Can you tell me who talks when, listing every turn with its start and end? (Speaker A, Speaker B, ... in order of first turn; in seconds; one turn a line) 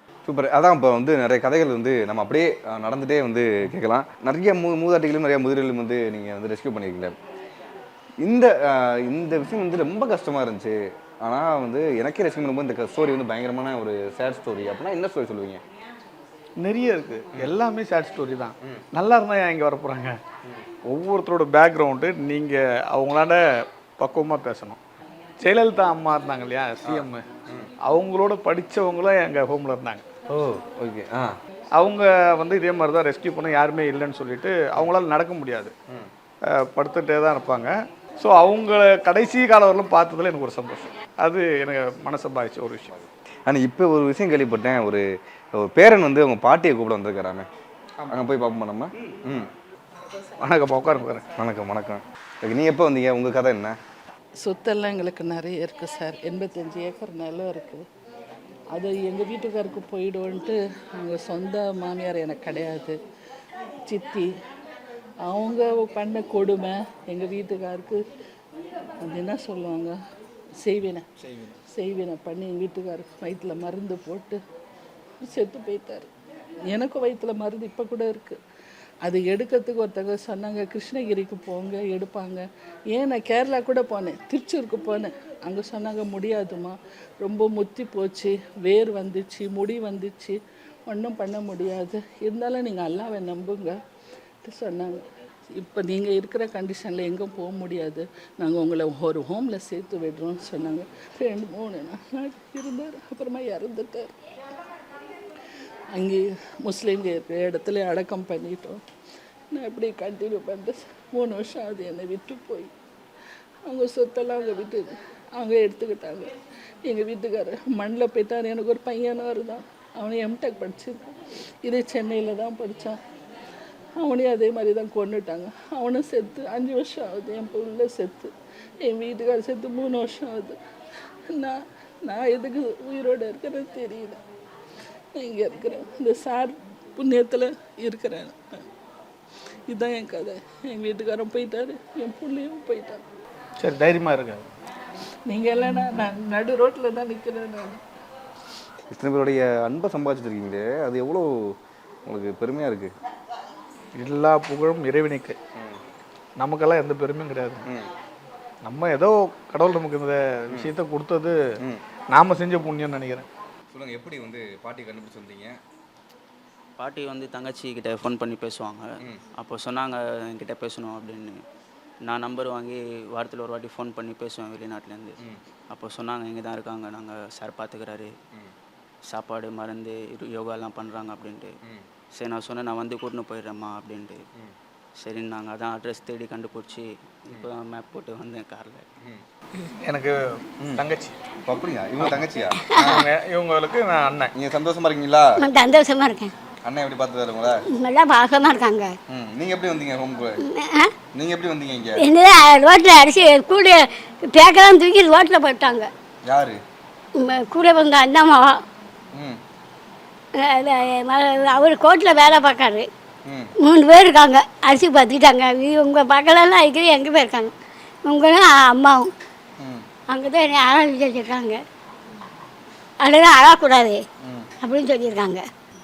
Speaker A: 0.2-7.1
Speaker A: 8.2-15.6
Speaker B: 16.6-20.1
Speaker B: 20.9-23.4
Speaker B: 24.0-24.8
Speaker B: 25.4-27.2
Speaker A: 26.8-27.7
Speaker B: 27.9-30.0
Speaker A: 30.3-31.3
Speaker B: 31.8-35.7
Speaker B: 36.6-43.0
Speaker A: 43.5-45.0
Speaker A: 45.5-47.5
Speaker A: 48.1-49.5
Speaker B: 50.4-51.3
Speaker A: 51.4-53.8
Speaker C: 54.4-57.8
Speaker C: 58.7-63.0
Speaker C: 63.8-64.3
Speaker C: 65.2-68.0
Speaker C: 69.0-69.9
Speaker C: 70.6-71.0
Speaker B: 71.2-71.5
Speaker C: 71.7-74.4
Speaker C: 75.2-76.1
Speaker C: 76.7-78.4
Speaker C: 79.0-90.3
Speaker C: 90.9-93.8
Speaker C: 94.4-104.1
Speaker C: 105.9-108.8
Speaker C: 109.5-112.7
Speaker C: 113.7-116.3
Speaker C: 116.8-123.0
Speaker C: 124.0-130.6
Speaker C: 131.3-134.2
Speaker C: 135.2-138.6
Speaker C: 139.7-143.0
Speaker B: 143.6-144.4
Speaker C: 145.3-147.8
Speaker A: 148.9-152.9
Speaker B: 153.9-155.3
Speaker B: 156.4-157.7
Speaker B: 158.6-161.3
Speaker B: 162.1-163.3
Speaker A: 163.7-165.6
Speaker D: 166.8-171.4
Speaker D: 172.0-178.1
Speaker D: 179.0-181.6
Speaker D: 182.1-184.2
Speaker D: 185.0-188.8
Speaker B: 189.6-191.2
Speaker A: 191.4-193.1
Speaker B: 192.8-194.3
Speaker A: 194.3-195.4
Speaker E: 195.4-196.3
Speaker A: 196.6-197.6
Speaker E: 197.7-198.9
Speaker A: 199.1-200.4
Speaker E: 200.4-200.9
Speaker A: 201.1-202.0
Speaker E: 202.0-205.9
Speaker A: 206.2-206.6
Speaker E: 207.2-208.6
Speaker A: 209.1-209.4
Speaker E: 210.4-212.9
Speaker A: 213.2-213.5
Speaker E: 213.6-219.1
Speaker E: 220.1-221.6
Speaker E: 223.0-224.0
Speaker E: 224.6-225.4